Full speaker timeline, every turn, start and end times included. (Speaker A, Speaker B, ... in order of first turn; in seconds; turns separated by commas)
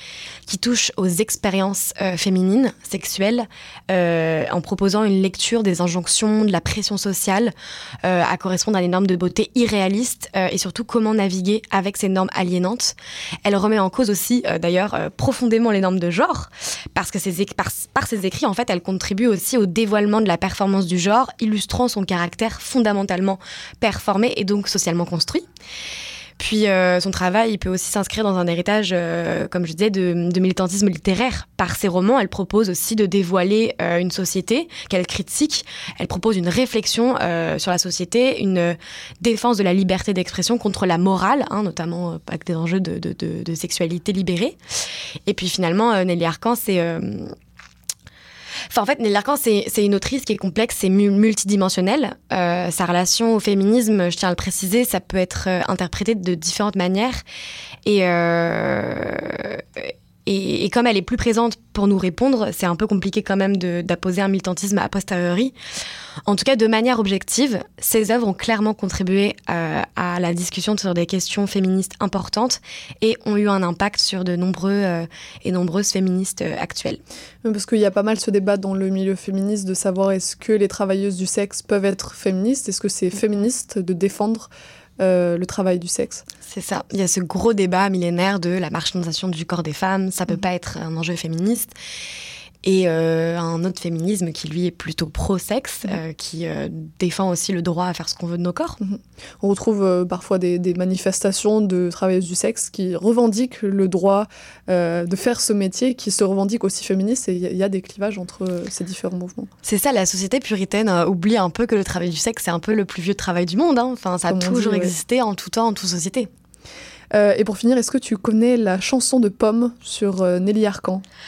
Speaker A: 0.5-25.5, Speaker A: 26.4-44.6, Speaker A: 45.3-47.3, Speaker A: 48.7-57.2, Speaker A: 57.9-65.5, Speaker A: 66.3-77.0, Speaker B: 77.4-86.3, Speaker A: 86.5-91.7, Speaker A: 92.6-98.8, Speaker B: 98.8-109.5, Speaker A: 109.6-116.3, Speaker B: 114.3-115.0, Speaker B: 117.1-121.0